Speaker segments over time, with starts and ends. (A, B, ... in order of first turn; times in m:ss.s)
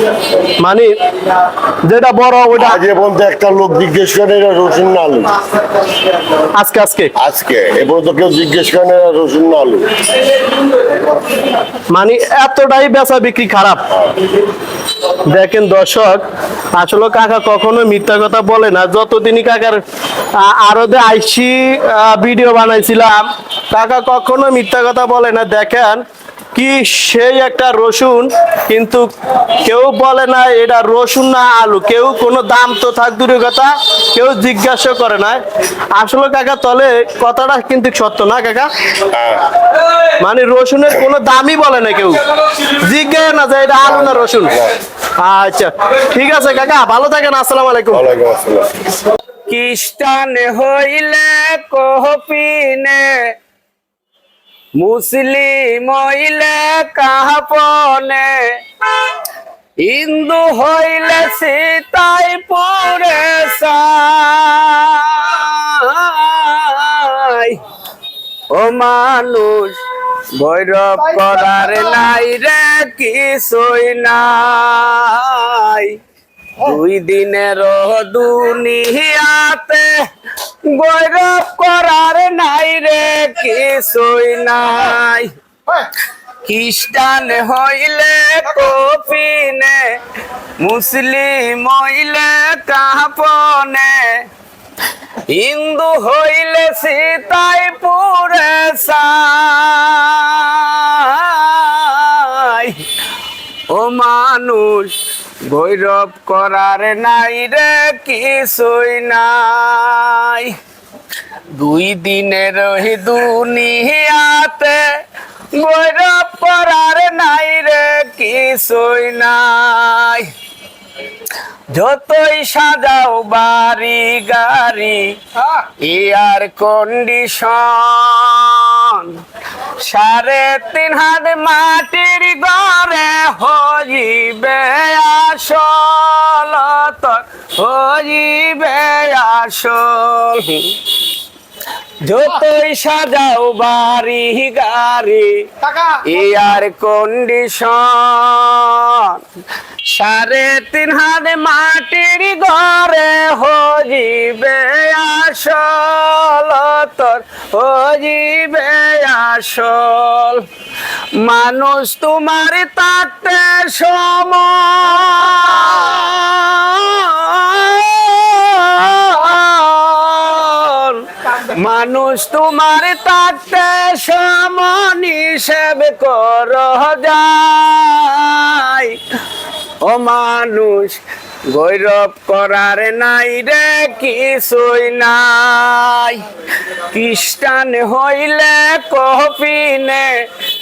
0:00.6-0:00.9 A
0:01.8-0:02.8 A
0:02.6-0:05.3 B
0:06.5-0:07.1 A
0:07.2-0:09.9 B
0:11.9-0:13.8 A
0:15.3-0:16.2 A
0:16.7-0:19.8 A
0:20.4-0:26.0 A
0:26.5-0:29.1 A
0:29.6-0:35.4 A
0:35.9-0:38.7 A
0:39.1-0:39.4 B
0:40.2-0:44.6 A
0:43.8-0:44.7 B
0:45.2-0:48.0 A
0:47.9-0:48.7 B
0:49.5-0:53.3 C
0:54.8-0:59.2 C
0:59.8-1:07.6 C
1:08.5-1:09.8 C
1:10.4-1:16.0 C
1:16.6-1:20.0 C
1:20.7-1:25.3 C
1:26.4-1:29.9 C
1:30.6-1:34.2 C
1:35.3-1:42.8 C
1:43.7-1:45.0 C
1:45.5-1:50.6 C
1:51.6-1:54.9 C
1:55.5-2:00.3 C
2:01.7-2:09.2 C
2:09.8-2:20.9 C
2:22.0-2:29.2 C
2:29.9-2:40.4 C
2:41.1-2:59.0 C
2:59.8-3:06.2 C
3:06.9-3:10.3 C